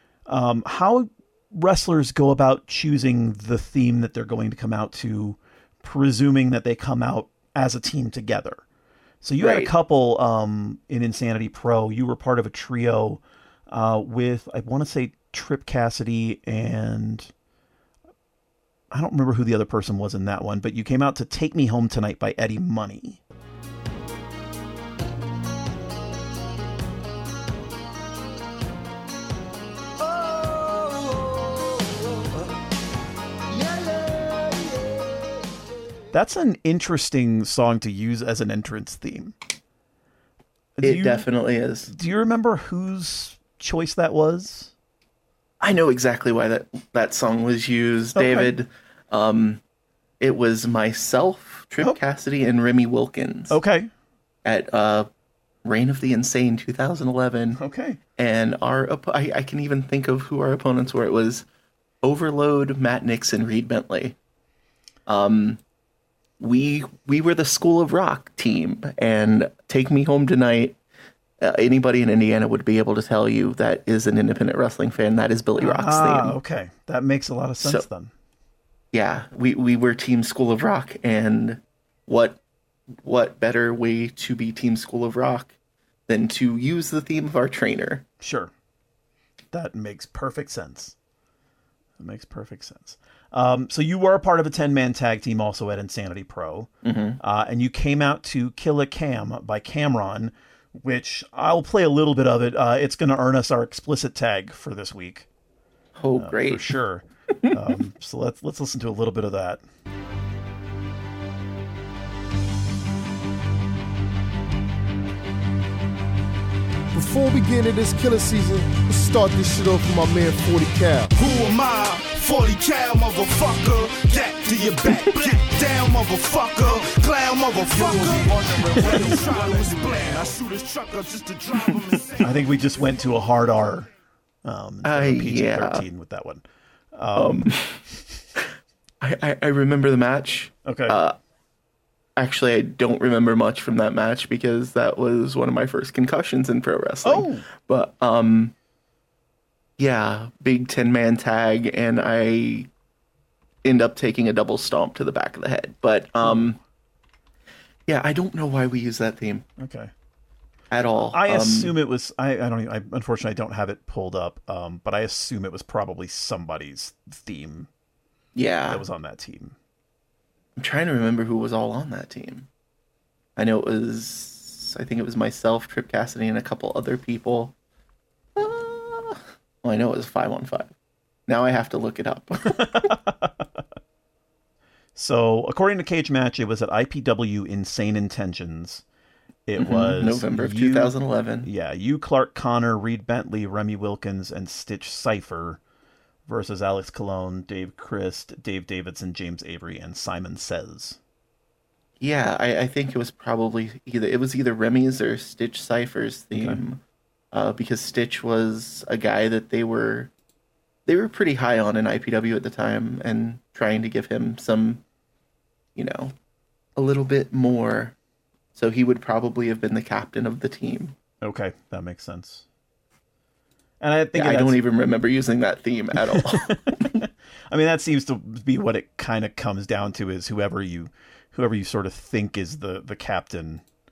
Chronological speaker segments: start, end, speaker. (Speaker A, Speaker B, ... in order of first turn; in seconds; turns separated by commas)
Speaker A: 0.3-8.6, Speaker A: 9.2-17.3, Speaker B: 9.4-9.7, Speaker A: 18.9-23.2, Speaker C: 30.0-32.0, Speaker C: 33.5-35.0, Speaker A: 36.1-39.4, Speaker A: 40.8-41.3, Speaker B: 40.8-41.9, Speaker A: 41.9-44.7, Speaker B: 45.6-49.6, Speaker A: 48.1-48.5, Speaker B: 50.2-53.6, Speaker A: 53.5-53.9, Speaker B: 54.5-55.1, Speaker B: 55.6-57.6, Speaker A: 57.6-58.0, Speaker B: 58.2-61.5, Speaker B: 62.0-64.2, Speaker B: 65.1-65.6, Speaker B: 66.4-70.8, Speaker B: 71.4-76.4, Speaker A: 75.6-78.1, Speaker B: 77.6-77.9, Speaker B: 78.9-82.4, Speaker B: 82.9-85.5, Speaker B: 86.1-88.0, Speaker A: 88.2-88.5, Speaker A: 89.5-91.0, Speaker A: 92.0-105.3, Speaker B: 96.8-97.2, Speaker B: 106.0-106.7, Speaker A: 106.1-109.6, Speaker B: 107.3-107.6, Speaker C: 116.9-121.1, Speaker D: 121.2-132.3, Speaker C: 127.7-129.8, Speaker A: 132.2-133.9, Speaker A: 134.4-137.6, Speaker B: 134.8-135.8, Speaker B: 137.2-137.8, Speaker B: 139.0-141.2, Speaker A: 140.7-141.0, Speaker B: 142.2-148.5, Speaker A: 147.0-147.5, Speaker B: 149.8-152.7, Speaker B: 153.6-156.6, Speaker A: 156.2-156.6, Speaker B: 157.9-159.4, Speaker A: 159.6-159.9, Speaker B: 160.7-161.7, Speaker A: 161.1-167.7, Speaker B: 168.3-168.8, Speaker A: 168.7-169.6, Speaker B: 170.6-172.5, Speaker B: 173.4-177.5, Speaker B: 178.4-180.7, Speaker B: 181.3-182.9, Speaker A: 182.5-183.4, Speaker A: 185.0-188.8, Speaker A: 189.5-195.6, Speaker B: 189.6-191.5, Speaker A: 196.3-201.0, Speaker B: 202.0-210.1, Speaker A: 206.3-206.6, Speaker B: 210.9-214.8, Speaker B: 215.8-216.2, Speaker B: 216.8-218.0, Speaker B: 218.5-221.0, Speaker A: 221.2-222.4, Speaker A: 223.8-224.6, Speaker B: 224.1-226.9, Speaker A: 226.1-233.6